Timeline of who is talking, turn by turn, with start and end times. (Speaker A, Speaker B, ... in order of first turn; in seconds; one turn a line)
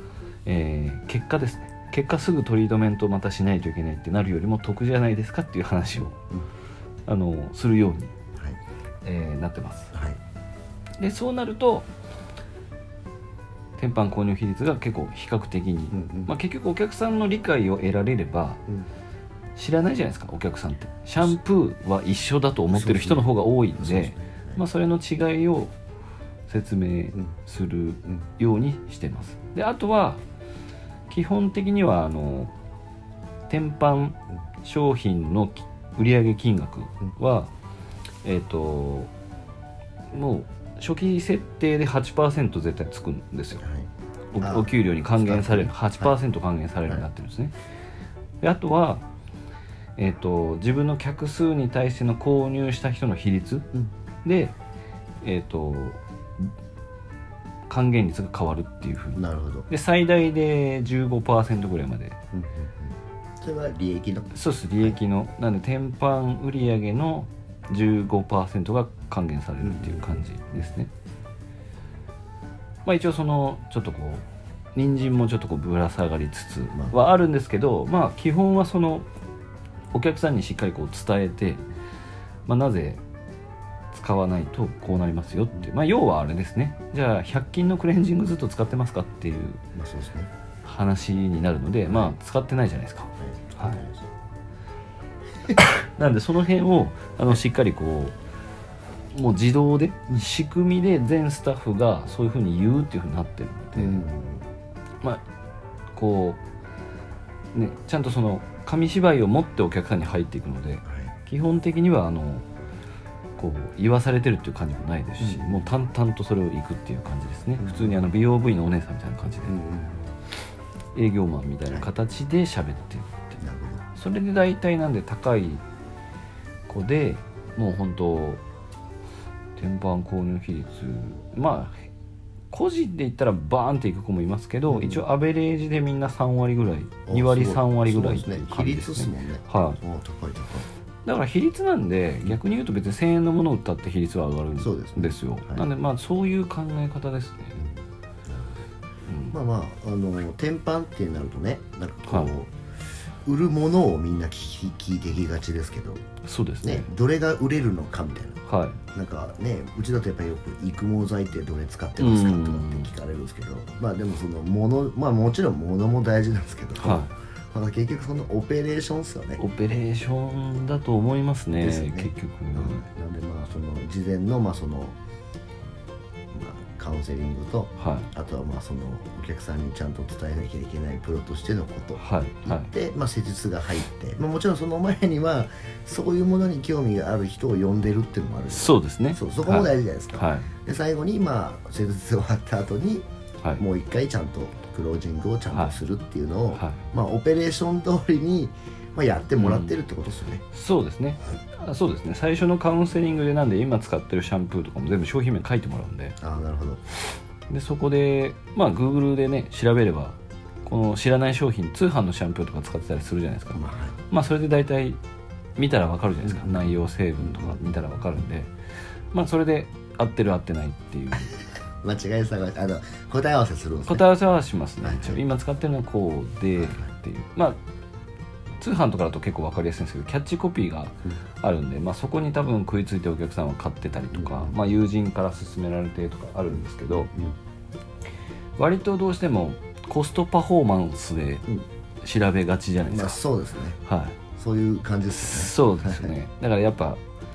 Speaker A: 0.5-6.2
Speaker A: 7.1-8.1
Speaker A: 9.0-9.9
Speaker B: 9.9-10.2
Speaker A: 11.0-11.9
Speaker A: 13.8-18.6
Speaker B: 15.9-16.3
Speaker A: 19.6-25.7
Speaker B: 22.7-24.6
Speaker A: 26.5-30.2
Speaker A: 31.1-32.5
Speaker A: 33.5-37.5
Speaker A: 38.2-39.1
Speaker A: 40.1-43.6
Speaker B: 43.6-43.9
Speaker A: 44.3-47.5
Speaker B: 44.4-46.2
Speaker A: 48.4-49.0
Speaker A: 50.0-53.7
Speaker A: 54.2-54.5
Speaker A: 55.2-56.5
Speaker A: 57.7-62.2
Speaker B: 59.1-59.7
Speaker B: 62.3-65.0
Speaker A: 64.3-70.9
Speaker B: 69.6-70.7
Speaker A: 72.8-79.0
Speaker B: 76.7-77.1
Speaker A: 79.9-81.6
Speaker A: 82.5-83.0
Speaker A: 83.9-89.6
Speaker B: 89.7-90.3
Speaker A: 90.6-93.8
Speaker B: 91.9-92.1
Speaker B: 93.2-94.1
Speaker A: 95.6-98.1
Speaker A: 99.1-104.0
Speaker B: 103.7-104.5
Speaker A: 105.9-106.4
Speaker A: 107.5-112.4
Speaker B: 110.9-111.1
Speaker A: 113.4-119.6
Speaker B: 115.2-115.7
Speaker B: 117.6-118.0
Speaker B: 119.4-120.1
Speaker A: 120.9-123.4
Speaker B: 123.4-123.8
Speaker A: 123.9-125.6
Speaker A: 126.7-128.4
Speaker A: 129.6-131.9
Speaker A: 132.5-139.8
Speaker B: 134.7-135.0
Speaker B: 137.1-140.7
Speaker A: 141.0-147.6
Speaker B: 144.6-145.6
Speaker B: 147.6-148.6
Speaker A: 149.1-149.3
Speaker B: 149.3-156.0
Speaker A: 156.2-156.9
Speaker B: 156.6-158.4
Speaker A: 158.5-158.8
Speaker B: 158.9-169.4
Speaker A: 162.0-162.9
Speaker A: 166.8-167.1
Speaker A: 169.4-172.8
Speaker B: 171.6-174.9
Speaker B: 176.3-193.1
Speaker A: 177.8-178.1
Speaker A: 182.0-182.7
Speaker A: 188.5-190.5
Speaker B: 193.6-200.4
Speaker A: 196.5-196.8
Speaker A: 199.4-199.8
Speaker A: 200.5-206.2
Speaker B: 206.2-206.8
Speaker A: 207.5-215.0
Speaker B: 213.5-214.0
Speaker A: 215.6-218.5
Speaker B: 216.2-217.9
Speaker A: 219.1-221.3
Speaker B: 221.8-224.0
Speaker A: 223.9-227.6
Speaker B: 224.8-225.2
Speaker B: 226.6-226.9
Speaker A: 228.6-237.1
Speaker B: 234.1-234.6
Speaker B: 236.5-237.4
Speaker A: 238.6-241.5
Speaker A: 242.0-243.2
Speaker B: 242.9-243.8
Speaker A: 243.8-244.2
Speaker B: 244.3-246.1
Speaker A: 245.1-247.0